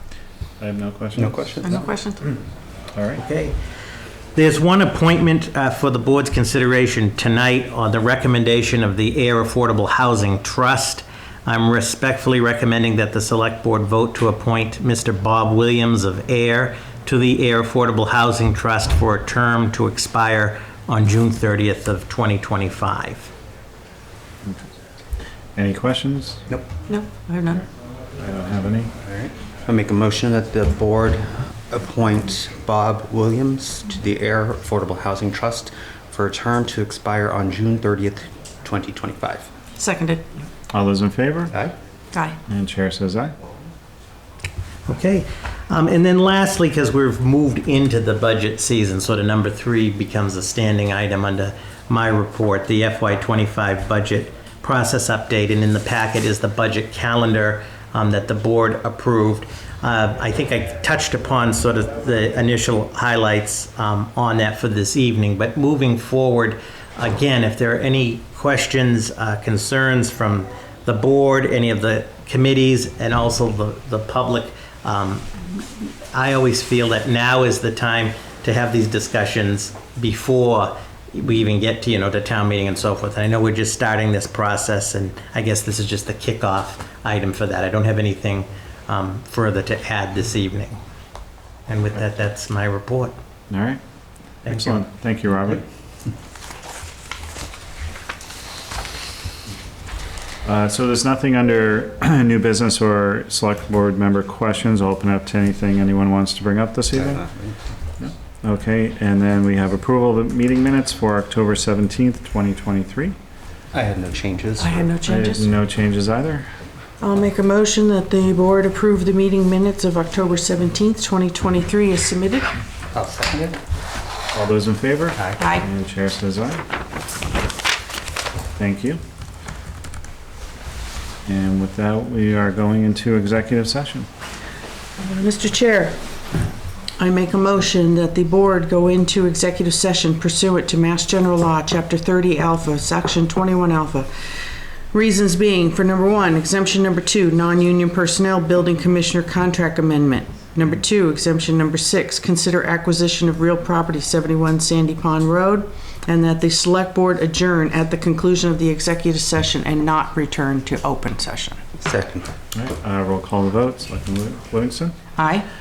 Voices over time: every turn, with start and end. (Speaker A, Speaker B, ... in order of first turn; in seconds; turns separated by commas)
Speaker A: 0.6-1.6, Speaker B: 1.2-1.9, Speaker C: 1.6-2.2, Speaker A: 2.9-3.2, Speaker D: 3.2-3.6, Speaker D: 4.3-23.3, Speaker A: 25.6-26.4, Speaker C: 26.9-27.6, Speaker A: 28.2-28.9, Speaker B: 29.1-39.5, Speaker C: 39.8-40.2, Speaker A: 40.7-41.5, Speaker A: 42.5-43.3, Speaker D: 44.9-90.8, Speaker D: 91.7-93.1, Speaker A: 93.5-93.8, Speaker A: 94.4-95.6, Speaker D: 94.5-94.8, Speaker A: 100.4-107.2, Speaker B: 106.9-107.5, Speaker A: 108.0-113.2, Speaker B: 113.7-114.8, Speaker C: 114.6-115.5, Speaker A: 115.0-116.5, Speaker C: 117.0-122.6, Speaker B: 122.9-123.6, Speaker A: 124.3-126.6, Speaker C: 125.4-125.7, Speaker A: 128.6-129.0, Speaker A: 131.2-134.1, Speaker C: 135.0-136.0, Speaker C: 137.0-144.1, Speaker C: 144.9-161.6, Speaker B: 161.8-162.3, Speaker A: 162.5-164.9, Speaker C: 165.2-165.5